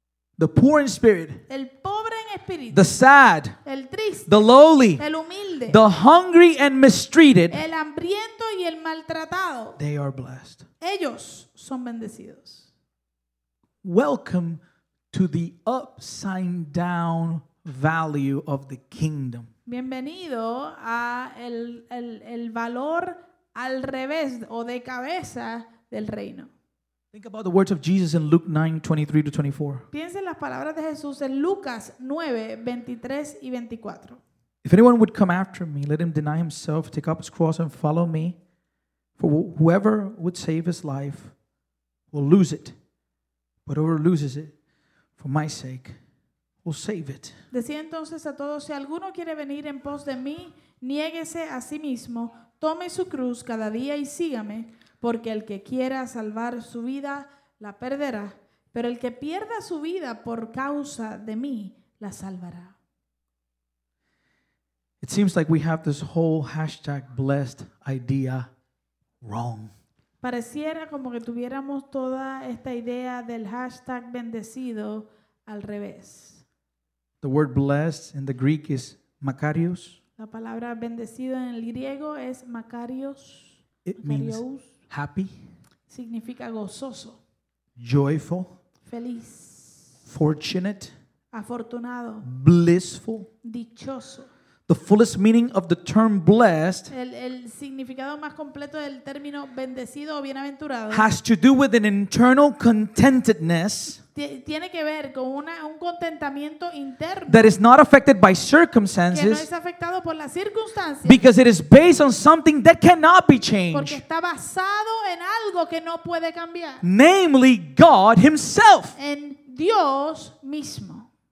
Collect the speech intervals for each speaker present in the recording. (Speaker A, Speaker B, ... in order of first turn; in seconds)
Speaker A: 0.4-1.4, 2.7-3.6, 4.3-5.0, 5.7-7.6, 9.8-10.7, 13.8-19.5, 27.1-29.9, 34.6-38.4, 39.2-41.3, 42.1-42.8, 43.7-44.5, 45.2-46.0, 46.6-47.4, 65.0-68.5, 69.2-69.7, 77.2-80.0, 83.8-85.4, 87.8-88.5, 90.1-90.9, 92.2-93.3, 94.7-96.9, 100.9-104.0, 107.3-109.5, 111.0-114.0, 116.8-119.0
Speaker B: 1.5-2.9, 3.6-4.4, 5.0-5.8, 7.5-9.8, 10.8-12.7, 19.7-26.5, 29.9-34.2, 47.5-62.8, 70.2-76.4, 80.2-84.7, 85.9-87.2, 88.9-90.0, 91.3-92.3, 93.4-94.3, 96.9-101.1, 104.2-107.5, 109.1-111.2, 113.7-116.8, 119.0-121.1